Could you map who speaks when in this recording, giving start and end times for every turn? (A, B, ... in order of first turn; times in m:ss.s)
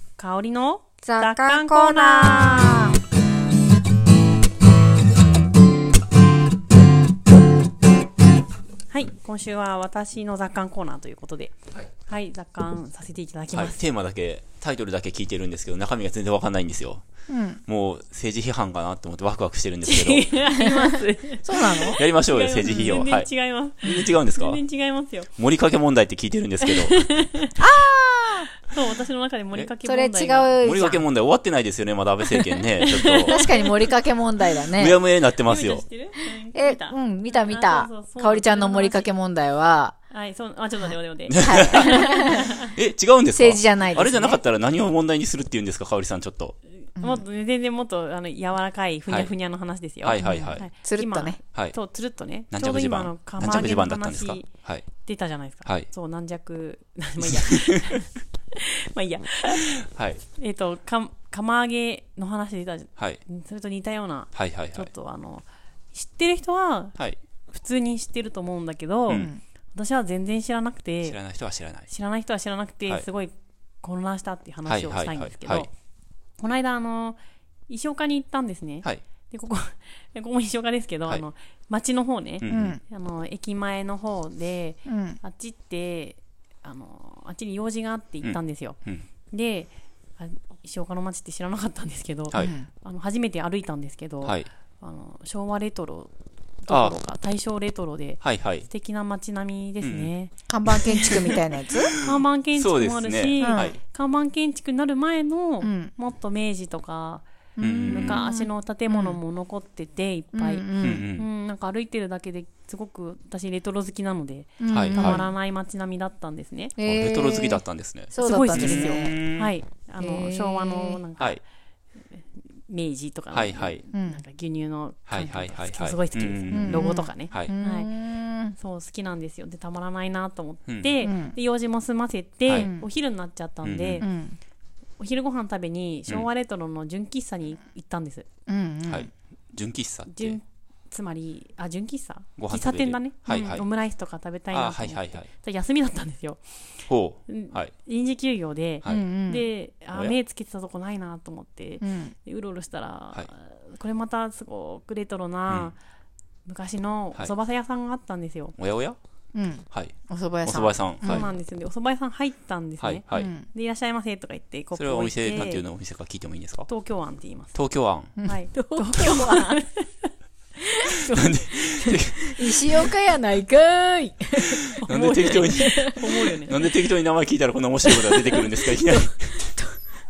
0:00.2-0:02.9 A
0:01.0-0:03.0 B
0:08.9-0:11.5 A
0:12.1-0:13.8 A
0:13.5-0:17.0 C
0:17.3-0:17.6 B
0:17.7-0:20.4 C
0:19.8-0:25.3 A
0:20.6-0:22.0 B
0:21.8-0:23.3 C
0:23.8-0:24.6 C
0:25.4-0:27.1 C
0:26.7-0:27.6 A
0:27.6-0:28.5 B
0:28.6-0:30.6 A
0:29.9-0:31.0 B
0:30.6-0:33.4 C
0:32.8-0:33.7 A
0:33.3-0:35.0 B
0:34.8-0:35.8 C
0:35.4-0:39.1 A
0:36.5-0:40.0 B
0:40.1-0:42.7 A
0:41.3-0:42.0 C
0:41.4-0:42.5 B
0:42.7-0:46.6 C
0:43.4-0:44.4 B
0:46.8-0:59.7 A
0:47.0-0:47.2 B
0:50.0-0:50.7 C
0:50.2-0:51.4 B
0:52.5-0:54.9 C
0:57.2-0:57.5 C
0:59.5-1:00.2 C
1:00.4-1:06.9 A
1:03.0-1:03.2 C
1:04.3-1:04.9 C
1:07.5-1:11.2 A
1:09.1-1:09.4 B
1:11.0-1:11.9 C
1:11.9-1:15.7 A
1:14.7-1:15.7 C
1:16.4-1:28.8 A
1:22.4-1:22.8 C
1:22.5-1:22.8 B
1:24.9-1:25.2 B
1:28.2-1:29.1 C
1:29.3-1:36.1 A
1:32.4-1:32.7 B
1:36.6-1:40.3 A
1:36.7-1:37.0 C
1:38.2-1:38.7 C
1:39.8-1:40.1 C
1:40.5-1:41.9 B
1:40.8-1:41.4 A
1:40.8-1:41.3 C
1:41.9-1:43.8 C
1:41.9-1:47.3 A
1:43.4-1:43.8 B
1:45.6-1:45.9 B
1:47.6-1:49.2 B
1:47.6-1:48.3 C
1:47.9-1:56.7 A
1:50.3-1:51.1 B
1:50.8-1:51.3 C
1:54.6-1:55.2 B
1:54.7-1:55.3 C
1:56.8-1:59.2 B
1:56.8-1:59.5 C
1:58.2-2:01.4 A
2:00.0-2:01.0 B
2:02.1-2:07.9 A
2:03.3-2:03.8 C
2:03.9-2:04.2 B
2:05.1-2:07.5 C
2:06.5-2:08.6 B
2:08.6-2:14.1 A
2:10.7-2:10.9 C
2:11.0-2:11.4 B
2:12.6-2:12.9 B
2:13.6-2:14.1 C
2:14.0-2:14.4 B
2:15.0-2:18.3 A
2:18.5-2:19.1 B
2:18.9-2:20.4 C
2:20.1-2:26.6 A
2:22.4-2:23.7 C
2:24.5-2:25.3 C
2:26.9-2:27.7 C
2:27.3-2:35.8 A
2:28.9-2:29.4 B
2:31.8-2:32.1 B
2:35.5-2:35.7 C
2:36.5-2:38.6 A
2:38.6-2:39.0 C
2:39.3-2:41.3 B
2:39.7-2:41.3 C
2:41.0-2:45.6 A
2:42.8-2:43.3 C
2:43.1-2:43.4 B
2:44.8-2:46.7 C
2:46.7-2:47.6 A
2:47.5-2:48.2 C
2:48.2-2:49.6 B
2:48.2-2:50.1 A
2:50.8-2:51.4 A
2:51.1-2:52.9 C
2:51.8-2:56.8 B
2:54.4-2:59.5 C
2:54.8-2:56.7 A
2:57.8-2:59.0 B